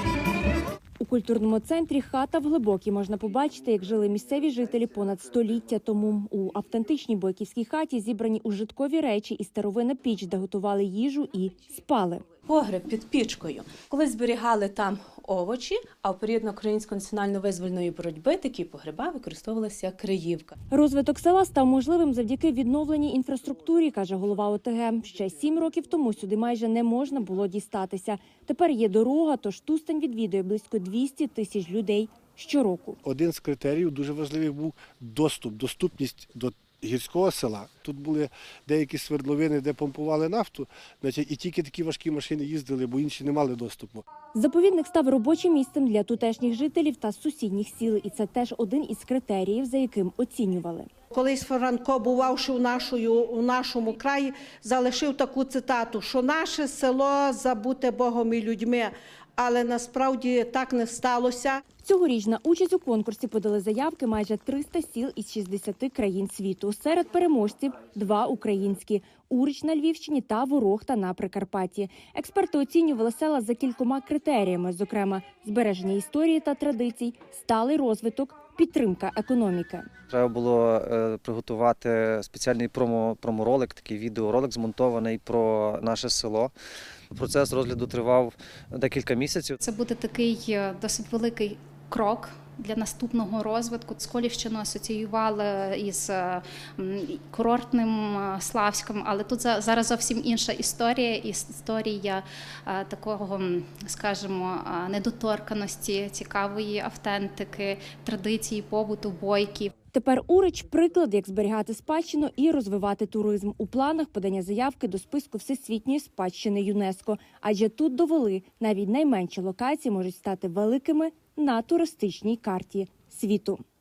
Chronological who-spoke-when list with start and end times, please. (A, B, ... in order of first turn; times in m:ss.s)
0:01.0-0:12.2 A
0:12.5-0:20.5 B
0:20.7-0:33.0 A
0:33.0-0:44.0 C
0:44.3-0:50.9 A
0:51.1-1:01.6 D
1:01.8-1:19.8 A
1:20.1-1:26.5 E
1:27.1-1:29.6 E
1:29.6-1:49.7 F
1:49.9-2:03.6 A